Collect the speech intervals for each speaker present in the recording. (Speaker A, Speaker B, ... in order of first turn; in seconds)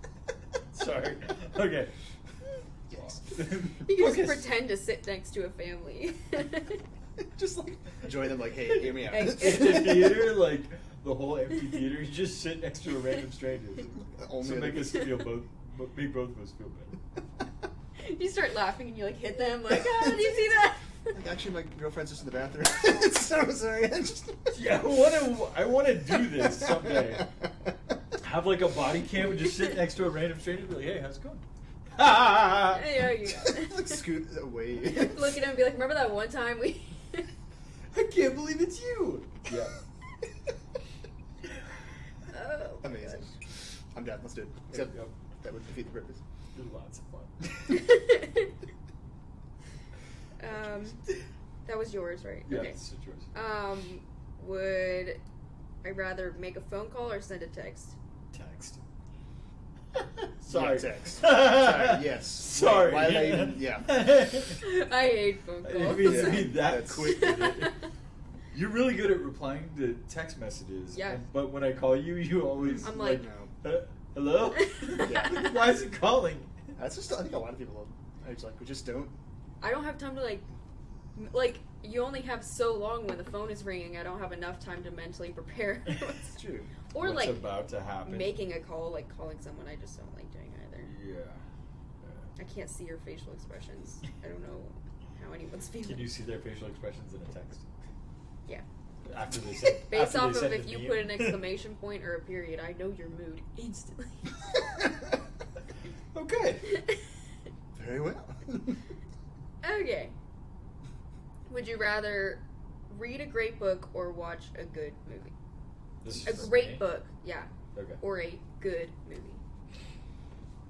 Speaker A: 0.7-1.9, 2.9-4.5, 8.7-17.0, 24.5-27.3, 28.2-31.4, 31.9-33.0, 37.9-39.7, 44.7-45.1, 46.5-47.9, 52.5-53.3, 58.3-58.8, 59.9-64.6, 65.6-67.8, 68.5-76.5, 87.0-88.4, 90.8-91.4, 92.0-92.3, 95.8-97.7, 99.0-101.4, 106.1-106.8, 116.0-116.8, 117.7-118.0
Speaker B: 2.9-3.4, 7.5-10.1, 14.0-15.1, 21.1-24.5, 26.6-27.5, 33.5-35.3, 42.8-43.3, 43.9-46.2, 60.5-63.9, 65.9-67.2, 72.6-73.5, 75.0-75.5, 76.8-79.1, 86.3-86.7, 107.7-108.8
Speaker C: 3.8-6.8, 9.1-10.1, 18.0-21.1, 32.6-34.0, 34.8-37.3, 42.3-43.3, 47.7-48.5, 50.4-51.0, 51.6-52.8, 53.3-55.2, 55.8-58.0, 64.6-67.8, 70.9-71.2, 72.8-73.2, 74.7-75.5, 79.6-80.5, 81.1-86.3, 86.9-87.5, 88.0-90.9, 92.4-96.1, 99.9-104.3, 109.6-110.1, 111.5-115.3, 116.2-119.4